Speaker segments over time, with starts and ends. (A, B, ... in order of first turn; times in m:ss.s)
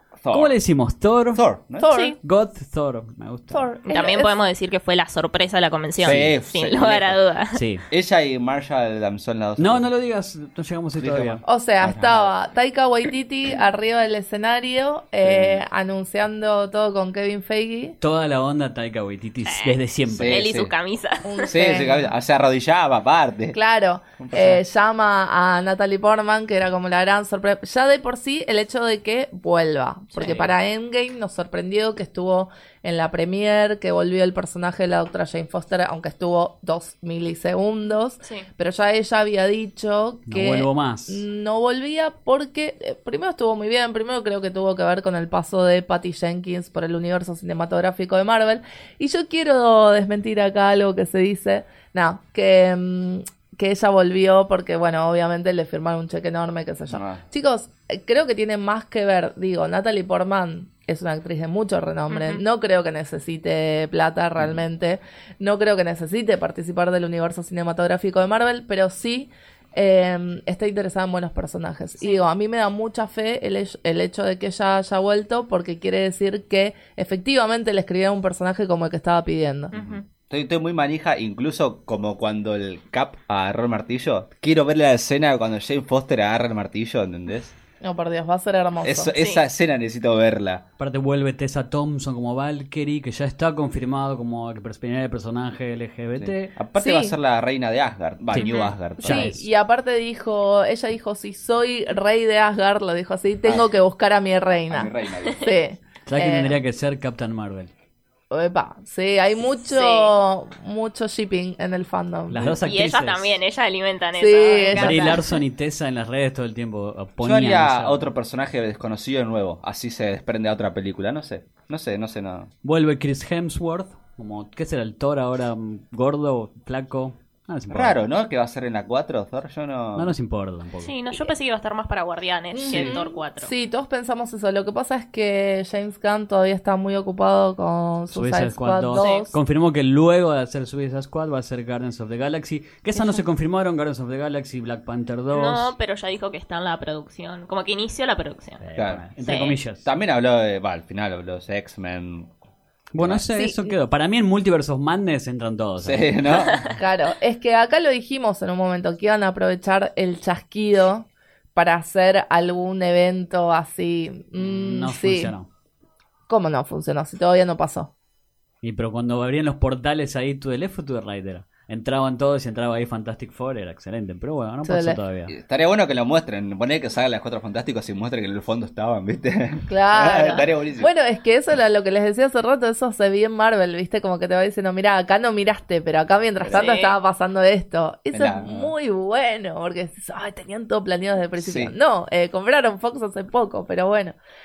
0:00.2-0:00.6 A
0:00.3-0:01.4 B
0:01.3-0:01.9 A
0:01.8-0:02.2 C
0:01.9-0:02.2 D
0:02.2-0:03.7 B
0:03.5-0:04.3 C
0:03.9-0:07.6 D
0:06.0-0:07.2 A
0:06.0-0:06.3 B
0:07.5-0:07.8 B
0:07.9-0:09.9 A
0:09.6-0:11.4 B
0:11.0-0:12.3 A
0:11.4-0:18.0 C
0:15.2-0:15.6 A
0:18.0-0:20.5 B
0:19.4-0:21.6 D
0:20.1-0:20.7 A
0:21.2-0:22.1 C
0:21.5-0:23.6 A
0:23.5-1:19.7 C
0:24.2-0:24.6 A
0:30.1-0:30.5 D
0:40.3-0:41.2 B
0:56.9-0:57.2 A
1:02.1-1:02.4 D
1:19.7-1:20.0 D
1:19.7-1:27.5 A
1:27.8-1:29.1 C
1:28.8-1:30.6 A
1:29.2-1:29.4 D
1:30.8-1:36.6 B
1:36.2-1:39.3 A
1:36.8-1:37.2 C
1:38.3-1:39.5 B
1:38.4-1:38.7 D
1:39.0-1:46.6 C
1:43.4-1:43.7 A
1:44.7-1:45.5 A
1:46.1-1:47.7 B
1:48.3-1:52.6 C
1:49.6-1:50.1 D
1:52.3-1:53.4 B
1:52.6-1:55.4 D
1:54.2-1:55.2 C
1:54.7-1:58.1 B
1:57.2-2:02.5 A
2:02.6-2:08.0 B
2:07.7-2:10.1 A
2:10.0-2:11.0 B
2:10.8-2:13.5 D
2:12.5-2:19.4 C
2:18.1-2:25.7 B
2:19.0-2:19.3 D
2:23.0-2:23.2 C
2:25.3-2:28.6 D
2:28.6-2:29.9 B
2:28.8-2:29.0 A
2:29.2-2:29.6 D
2:29.8-2:32.3 A
2:32.9-2:36.5 B
2:33.0-2:33.2 A
2:33.4-2:33.8 C
2:35.8-2:36.6 A
2:36.8-2:45.3 C
2:44.4-2:45.5 B
2:46.3-2:47.9 C
2:48.6-2:55.4 B
2:54.6-2:55.0 C
2:55.3-3:00.9 A
2:59.7-3:14.2 C
3:06.4-3:06.7 A
3:06.5-3:07.0 D
3:08.1-3:08.7 A
3:11.4-3:11.7 A